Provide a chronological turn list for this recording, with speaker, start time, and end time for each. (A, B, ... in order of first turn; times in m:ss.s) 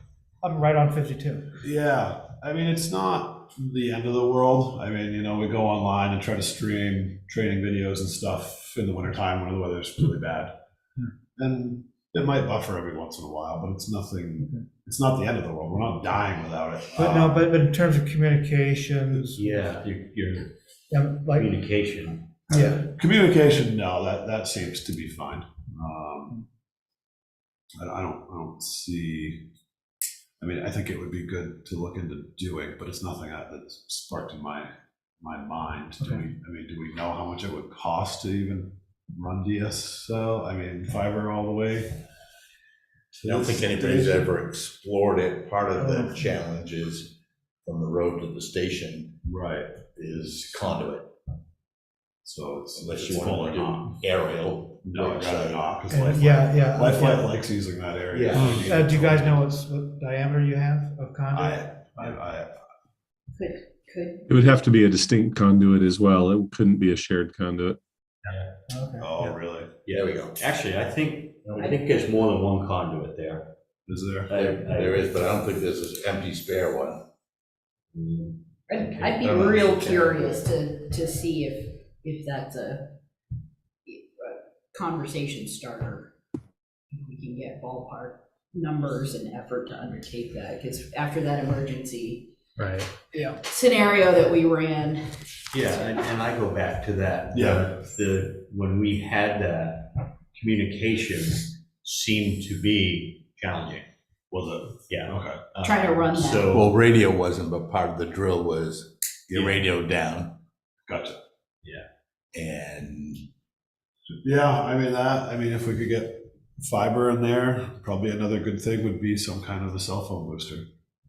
0:00.4-0:01.5 A
0:01.6-0:10.5 B
0:11.4-0:17.4 B
0:17.0-0:19.6 A
0:19.4-0:20.5 C
0:20.9-0:21.5 A
0:21.3-0:22.3 C
0:22.5-0:22.9 A
0:22.8-0:26.4 B
0:27.8-0:29.5 B
0:30.4-0:42.0 B
0:43.1-0:44.3 B
0:43.2-0:47.1 D
0:47.6-0:49.2 D
0:49.2-0:49.8 B
0:49.9-0:51.1 D
0:52.2-0:53.8 B
0:52.8-0:55.7 D
0:53.0-0:53.9 C
0:54.8-0:59.4 B
0:55.9-0:57.3 A
0:58.1-0:58.5 D
0:58.6-1:02.1 A
1:01.3-1:02.6 B
1:03.3-1:04.2 E
1:04.3-1:07.8 F
1:08.7-1:09.1 A
1:09.0-1:09.7 B
1:09.8-1:13.5 C
1:09.9-1:10.4 D
1:11.6-1:12.0 E
1:13.9-1:14.3 B
1:14.3-1:15.1 C
1:14.4-1:17.0 D
1:18.2-1:19.5 C
1:18.7-1:22.9 E
1:19.2-1:20.4 D
1:23.9-1:26.1 E
1:26.9-1:32.3 E
1:33.1-1:35.0 E
1:35.5-1:43.9 C
1:37.3-1:37.7 B
1:44.3-1:45.4 B
1:44.9-1:46.8 C
1:45.6-1:46.5 E
1:46.5-1:50.4 D
1:50.9-1:51.2 B
1:52.3-1:53.2 D
1:54.2-2:00.7 B